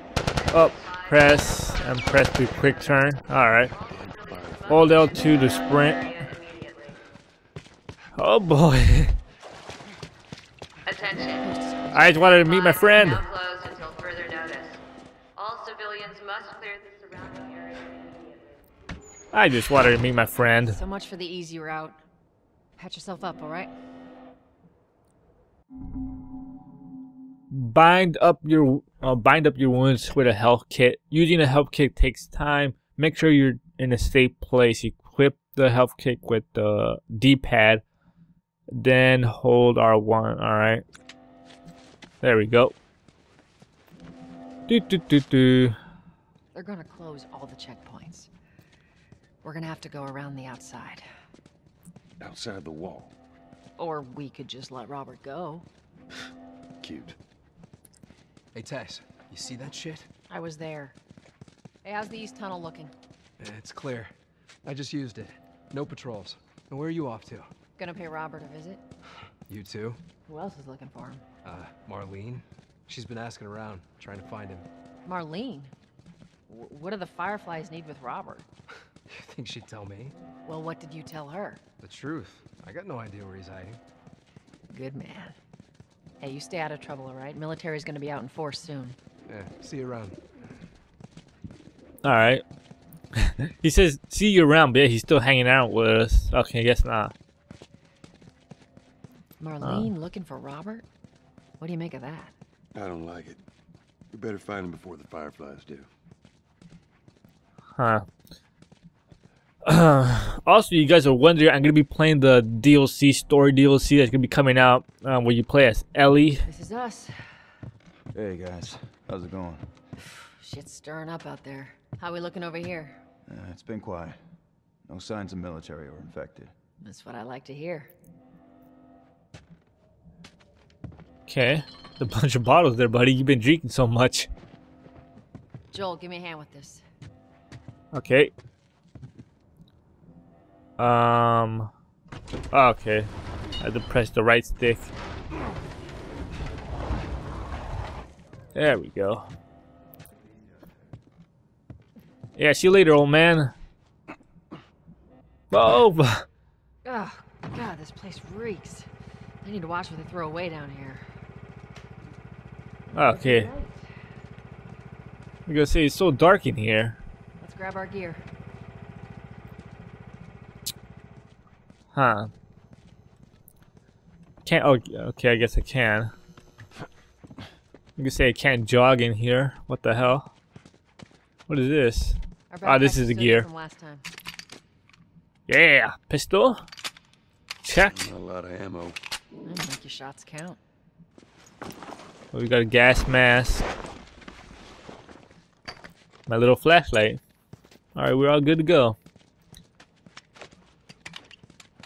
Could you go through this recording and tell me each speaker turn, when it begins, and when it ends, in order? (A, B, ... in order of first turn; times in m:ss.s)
0:00.5-0:03.7 A
0:00.5-0:02.3 B
0:03.7-0:07.0 B
0:04.0-0:05.0 C
0:04.7-0:06.1 A
0:08.2-0:09.1 A
0:10.9-0:11.4 B
0:11.0-0:12.3 D
0:11.9-0:13.2 A
0:12.2-0:14.8 B
0:15.4-0:18.6 B
0:19.3-0:20.8 A
0:20.6-0:22.0 D
0:22.8-0:23.7 D
0:27.5-0:37.8 A
0:38.7-0:40.8 A
0:42.2-0:42.7 A
0:44.7-0:45.8 A
0:46.5-0:48.3 D
0:49.4-0:51.0 D
0:52.2-0:53.1 C
0:53.8-0:55.6 D
0:56.8-0:57.2 C
0:58.5-1:00.1 E
1:00.3-1:01.0 D
1:01.8-1:02.9 D
1:03.4-1:04.1 E
1:04.6-1:07.5 E
1:07.8-1:08.8 D
1:09.5-1:10.0 E
1:10.2-1:11.2 D
1:11.4-1:14.6 E
1:15.0-1:15.7 D
1:16.5-1:18.5 D
1:19.1-1:20.2 E
1:20.4-1:21.6 D
1:21.8-1:23.8 E
1:24.7-1:25.4 D
1:26.2-1:29.0 D
1:29.3-1:30.2 E
1:32.0-1:32.4 A
1:33.2-1:37.1 A
1:39.4-1:40.8 D
1:39.6-1:39.9 A
1:41.6-1:42.3 D
1:42.7-1:43.4 C
1:44.1-1:45.9 C
1:47.8-1:48.0 A
1:49.6-1:56.4 A
1:56.4-1:57.1 D
1:58.1-1:59.6 F
2:00.1-2:03.0 D
2:03.3-2:04.2 F
2:04.9-2:06.5 F
2:06.8-2:07.9 D
2:11.3-2:14.3 A
2:15.7-2:16.8 D
2:17.9-2:18.3 A
2:20.8-2:21.7 A
2:22.5-2:23.1 A
2:23.6-2:24.9 A
2:28.5-2:29.3 A
2:32.4-2:33.5 A
2:35.5-2:36.2 A
2:36.8-2:38.9 D
2:39.4-2:41.0 D
2:42.9-2:43.8 D
2:42.9-2:43.5 A
2:45.5-2:47.0 A
2:47.4-2:48.2 D
2:51.9-2:52.3 A
2:54.4-2:56.1 A
2:58.0-3:00.3 A
3:01.5-3:03.5 A
3:02.5-3:04.0 D
3:05.5-3:06.6 A
3:07.6-3:08.0 A
3:07.9-3:09.0 C
3:09.4-3:10.6 D
3:12.3-3:13.6 A
3:16.3-3:17.2 A
3:18.0-3:19.0 A